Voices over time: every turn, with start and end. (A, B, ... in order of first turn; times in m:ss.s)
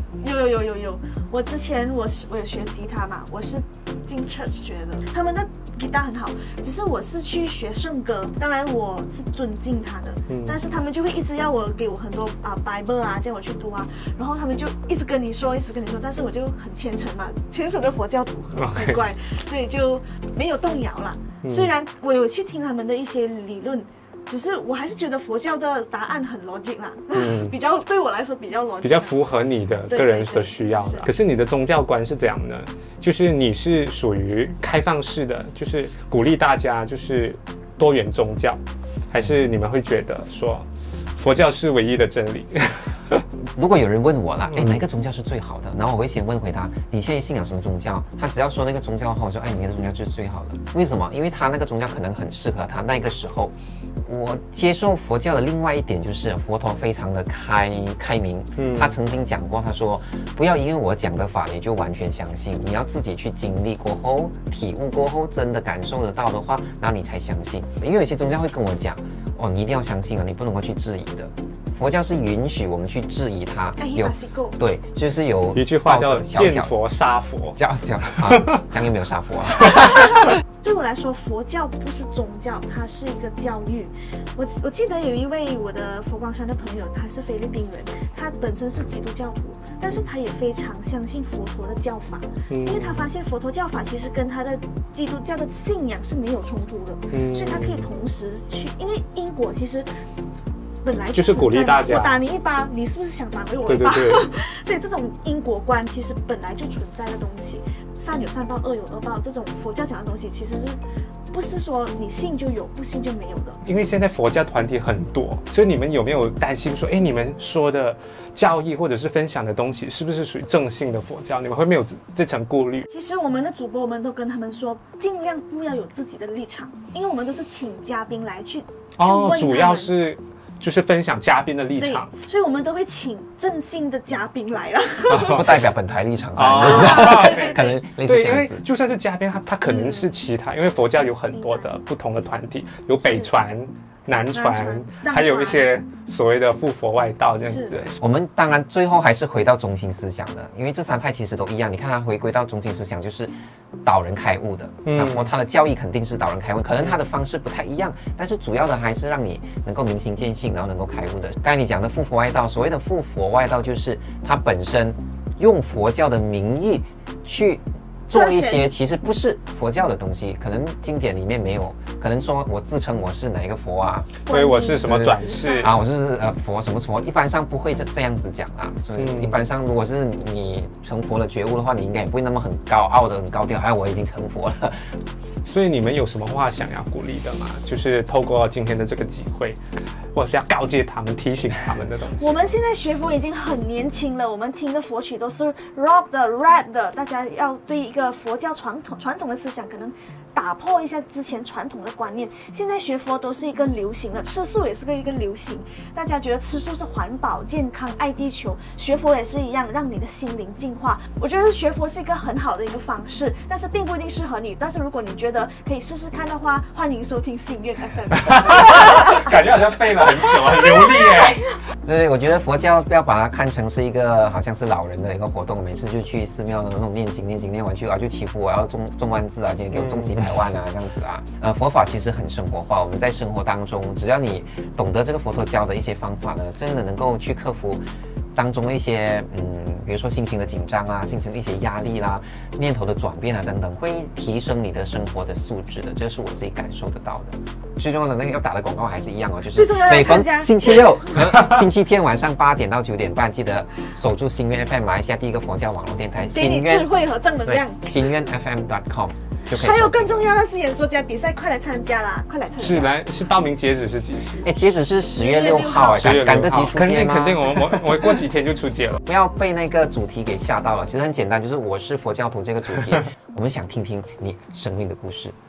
0:00.2-0:29.1 A
0:10.3-0:10.6 B
0:18.5-0:19.0 B
0:21.4-0:21.7 B
0:27.1-0:27.5 B
0:28.8-0:40.6 B
0:29.9-0:31.1 A
0:39.2-0:39.5 C
0:41.2-0:43.2 B
0:43.6-1:16.7 C
0:44.5-0:44.8 B
0:58.6-0:59.0 B
1:13.8-1:14.6 A
1:15.5-1:17.6 B
1:17.6-1:20.1 C
1:18.1-1:18.6 B
1:19.7-1:20.0 B
1:20.6-1:39.9 A
1:32.5-1:33.0 B
1:37.1-1:37.9 B
1:40.8-1:50.8 A
1:41.1-1:42.2 B
1:43.6-1:44.3 B
1:51.3-1:53.6 A
1:53.6-2:02.9 B
2:02.9-2:09.9 A
2:09.0-2:12.1 B
2:11.8-2:15.5 A
2:15.1-2:15.4 B
2:15.1-2:18.6 C
2:16.4-2:28.0 B
2:16.6-2:17.8 A
2:19.7-2:20.1 A
2:21.3-2:21.7 A
2:23.0-2:23.3 A
2:24.3-2:25.7 A
2:27.4-2:27.8 A
2:27.8-2:33.3 C
2:33.8-2:54.2 C
2:34.8-2:35.3 B
2:48.1-2:48.7 A
2:54.3-2:55.7 A
2:54.3-2:55.7 B
2:54.8-3:04.8 C
2:59.0-2:59.4 B
3:05.4-3:09.6 B
3:10.1-3:12.4 B
3:12.2-3:39.2 A
3:38.2-3:41.5 B
3:40.8-3:41.3 A
3:41.8-3:57.8 C
3:49.7-3:50.2 B
3:58.3-4:16.9 C
4:09.5-4:10.9 A
4:16.3-4:17.9 A
4:17.4-4:20.3 C
4:19.5-4:23.0 A
4:22.6-4:24.5 B
4:24.4-4:27.8 C
4:25.1-4:26.2 A
4:26.0-4:29.0 B
4:29.0-4:35.3 C